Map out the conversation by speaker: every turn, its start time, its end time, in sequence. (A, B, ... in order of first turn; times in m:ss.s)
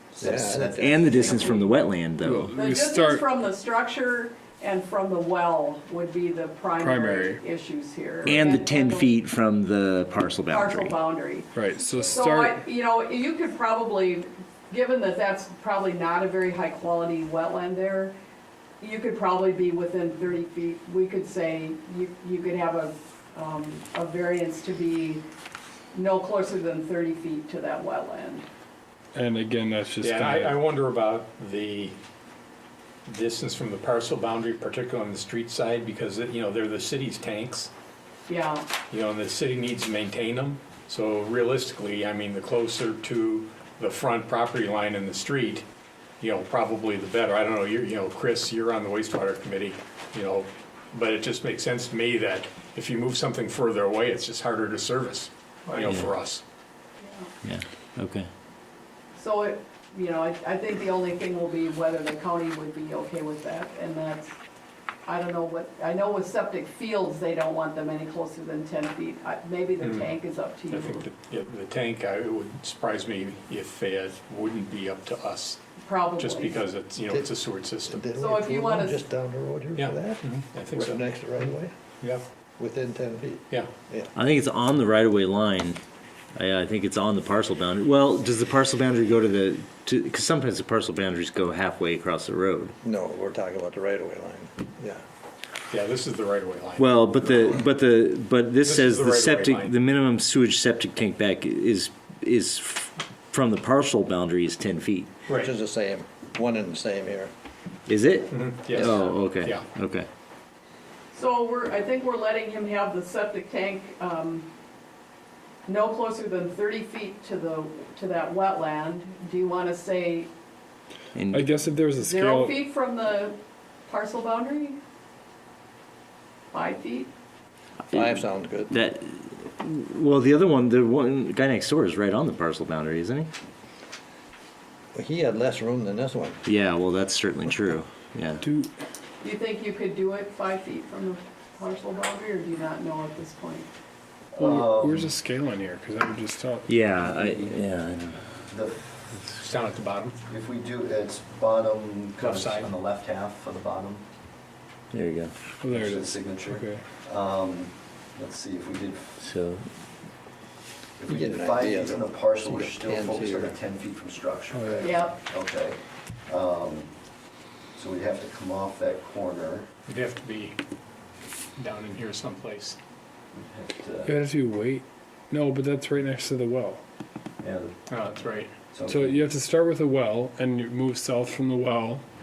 0:00.1-0:01.6 A
0:00.2-0:00.9 B
0:00.7-0:02.5 C
0:02.2-0:03.2 D
0:02.5-0:09.1 E
0:06.8-0:07.4 D
0:08.2-0:11.0 C
0:10.5-0:18.1 E
0:11.5-0:12.6 D
0:18.8-0:25.2 E
0:25.9-0:28.5 E
0:29.1-0:30.6 D
0:30.0-0:32.0 F
0:33.0-0:37.7 F
0:38.3-0:38.7 E
0:38.9-0:45.6 F
0:46.2-0:56.4 F
0:55.8-0:56.1 C
0:57.0-0:57.3 E
0:57.4-0:58.3 C
0:59.1-1:04.3 E
1:05.0-1:11.0 E
1:09.8-1:10.1 F
1:10.7-1:15.6 F
1:15.8-1:16.6 E
1:16.2-1:18.0 F
1:17.1-1:21.7 B
1:18.2-1:19.0 E
1:19.7-1:21.1 F
1:22.6-1:24.1 B
1:24.2-1:25.8 C
1:26.3-1:32.7 C
1:32.8-1:35.0 B
1:35.7-1:37.0 F
1:36.8-1:45.1 C
1:38.6-1:39.8 F
1:45.2-1:45.5 F
1:45.3-1:47.3 B
1:47.9-1:50.1 C
1:48.3-1:49.7 F
1:51.1-1:54.5 E
1:55.6-2:00.3 E
2:01.1-2:01.5 C
2:01.3-2:02.6 D
2:02.0-2:04.8 E
2:06.5-2:07.1 E
2:07.9-2:08.7 B
2:07.9-2:13.3 C
2:14.9-2:16.4 B
2:16.4-2:18.4 C
2:18.4-2:18.7 D
2:19.2-2:23.7 E
2:24.3-2:25.1 A
2:24.4-2:26.7 D
2:26.7-2:28.3 C
2:27.0-2:27.6 A
2:28.5-2:29.1 A
2:29.4-2:30.2 F
2:30.3-2:34.0 A
2:32.2-2:32.7 F
2:34.9-2:35.3 C
2:35.6-2:36.8 D
2:35.7-2:39.2 A
2:39.2-2:39.7 C
2:41.0-2:46.9 A
2:41.1-2:43.5 B
2:44.5-2:45.0 D
2:44.8-2:45.1 E
2:47.7-2:49.7 A
2:49.9-2:50.6 F
2:51.6-2:52.8 F
2:53.3-2:54.2 A
2:54.0-2:56.8 D
2:57.4-2:57.7 A
2:57.9-2:58.5 F
2:58.7-2:59.2 A
2:58.9-3:02.0 D